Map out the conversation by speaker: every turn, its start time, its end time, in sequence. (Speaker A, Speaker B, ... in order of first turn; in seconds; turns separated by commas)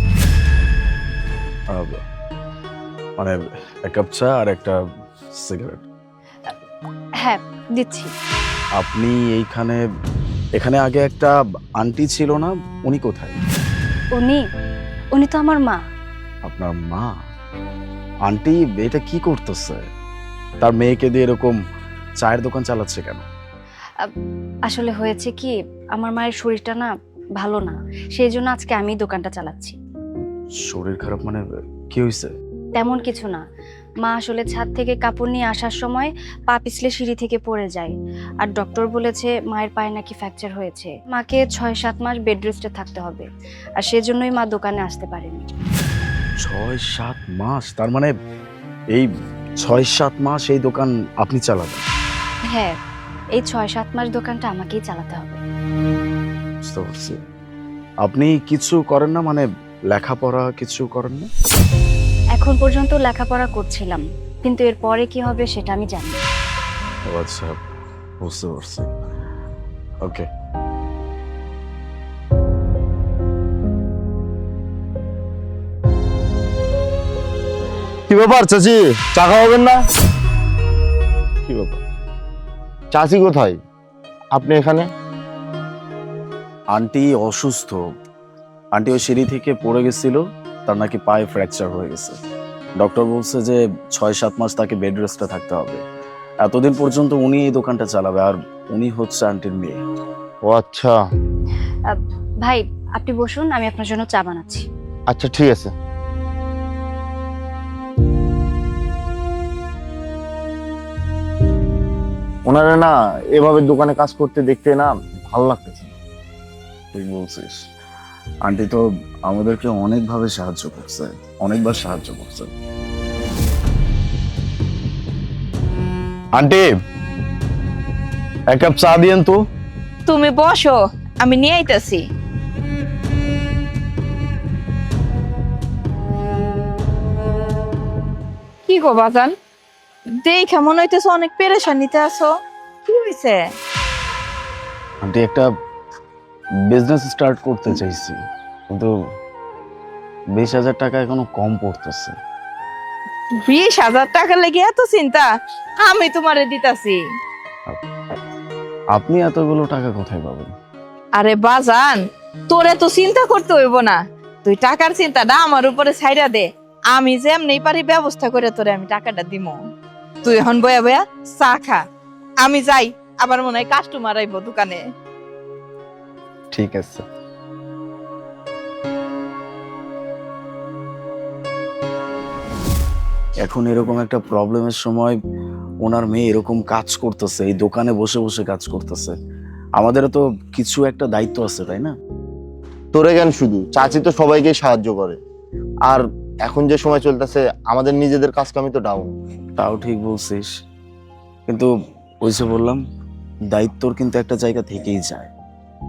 Speaker A: 1.7-2.0, Speaker A: 3.2-4.8, Speaker A: 5.4-5.9, Speaker B: 7.2-8.1, Speaker A: 8.8-9.8, Speaker A: 10.6-13.4, Speaker B: 14.2-14.4, Speaker B: 15.2-15.8, Speaker A: 16.5-17.1, Speaker A: 18.3-19.9, Speaker A: 20.6-21.6, Speaker A: 22.2-23.2, Speaker B: 24.7-29.8, Speaker A: 30.6-32.3, Speaker B: 32.8-33.4, Speaker B: 34.0-43.3, Speaker B: 43.8-45.4, Speaker A: 46.4-48.1, Speaker A: 49.6-51.9, Speaker B: 53.4-55.4, Speaker A: 56.6-57.2, Speaker A: 58.0-61.3, Speaker B: 62.4-66.2, Speaker A: 67.1-67.6, Speaker A: 68.2-68.9, Speaker C: 78.1-79.8, Speaker C: 81.5-81.8, Speaker C: 82.9-83.6, Speaker C: 84.3-84.9, Speaker A: 86.7-87.8, Speaker A: 88.8-92.2, Speaker A: 92.8-95.8, Speaker A: 96.4-99.8, Speaker C: 100.5-101.0, Speaker B: 101.9-104.7, Speaker C: 105.1-105.7, Speaker C: 112.5-116.0, Speaker A: 116.9-117.7, Speaker A: 118.4-122.5, Speaker A: 126.4-126.8, Speaker A: 128.5-129.4, Speaker D: 130.1-132.0, Speaker D: 138.7-139.3, Speaker D: 140.2-142.3, Speaker D: 142.9-143.4, Speaker A: 145.0-145.5, Speaker A: 146.7-148.2, Speaker A: 150.4-152.2, Speaker D: 153.4-155.3, Speaker D: 155.8-157.0, Speaker A: 158.9-160.5, Speaker D: 161.2-169.6, Speaker D: 170.2-171.8, Speaker D: 172.4-174.8, Speaker A: 176.5-177.1, Speaker A: 183.4-185.2, Speaker A: 185.8-189.2, Speaker A: 189.8-191.9, Speaker C: 192.9-195.2, Speaker C: 195.9-199.2, Speaker A: 199.6-200.5, Speaker A: 202.2-202.8, Speaker A: 203.5-205.3